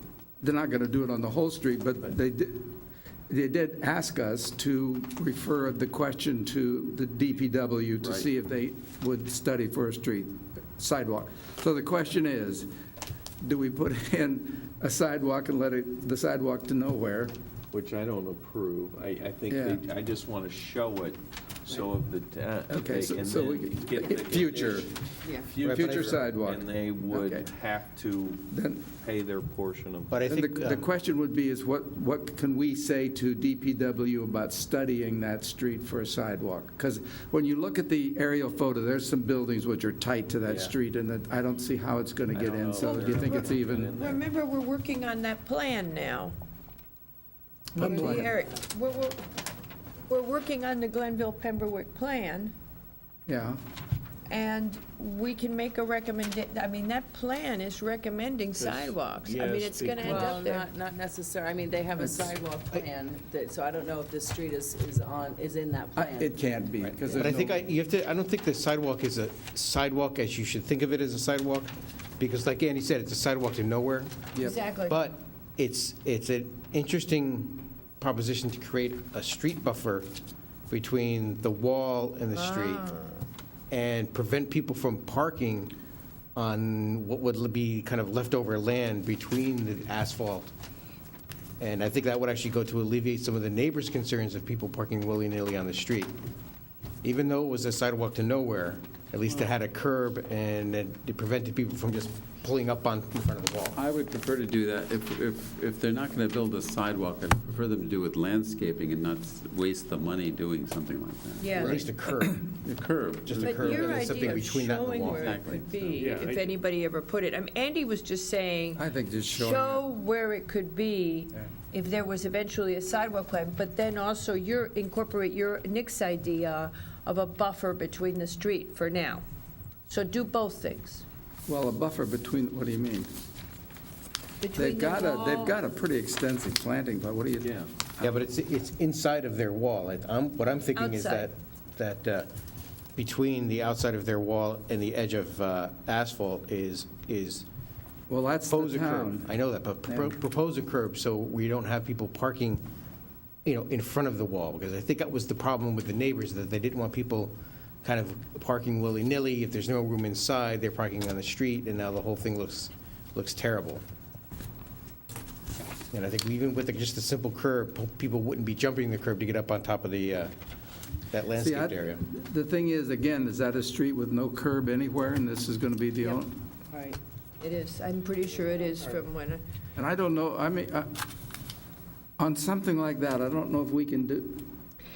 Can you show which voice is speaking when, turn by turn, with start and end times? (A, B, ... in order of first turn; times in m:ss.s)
0:00.4-0:12.7 A
0:08.0-0:08.3 B
0:13.4-0:17.3 A
0:17.7-0:28.4 B
0:19.5-0:19.8 A
0:22.7-0:24.9 A
0:25.6-0:26.1 C
0:25.7-0:27.5 A
0:28.5-0:28.9 A
0:29.0-0:30.3 B
0:30.1-0:30.9 C
0:30.3-0:43.9 A
0:40.4-0:40.8 B
0:42.3-0:44.2 B
0:42.8-0:46.3 D
0:47.7-0:48.3 A
0:47.8-0:49.2 D
0:50.1-0:52.5 D
0:53.3-0:53.6 A
0:54.3-1:00.7 D
0:58.6-1:00.3 B
1:00.0-1:07.3 E
1:02.0-1:02.3 A
1:05.9-1:07.7 A
1:07.1-1:14.2 C
1:14.3-1:14.6 A
1:14.4-1:15.0 D
1:14.8-1:20.1 C
1:20.7-1:22.8 C
1:22.3-1:23.2 D
1:23.7-1:25.7 C
1:26.3-1:30.5 C
1:31.6-1:36.2 C
1:37.0-1:43.8 C
1:43.7-1:51.8 F
1:51.4-1:51.8 D
1:51.5-1:52.4 C
1:52.6-1:54.1 F
1:53.2-1:55.3 C
1:53.4-2:09.2 D
1:54.9-1:56.1 F
1:56.0-1:56.6 B
1:58.8-1:59.9 A
2:09.9-2:11.0 D
2:11.5-2:13.1 A
2:14.4-2:15.6 D
2:14.6-2:18.2 A
2:17.4-2:17.7 B
2:18.0-2:22.3 C
2:20.7-2:21.3 D
2:23.0-2:27.4 C
2:28.1-2:29.3 A
2:28.5-2:32.6 C
2:29.9-2:30.1 A
2:33.4-2:43.8 C
2:45.9-2:50.3 C
2:51.1-2:52.0 C
2:51.4-2:56.4 A
2:56.7-2:57.0 E
2:57.4-2:59.4 D
2:58.4-2:59.0 E
2:59.8-3:01.0 A
3:02.2-3:04.6 A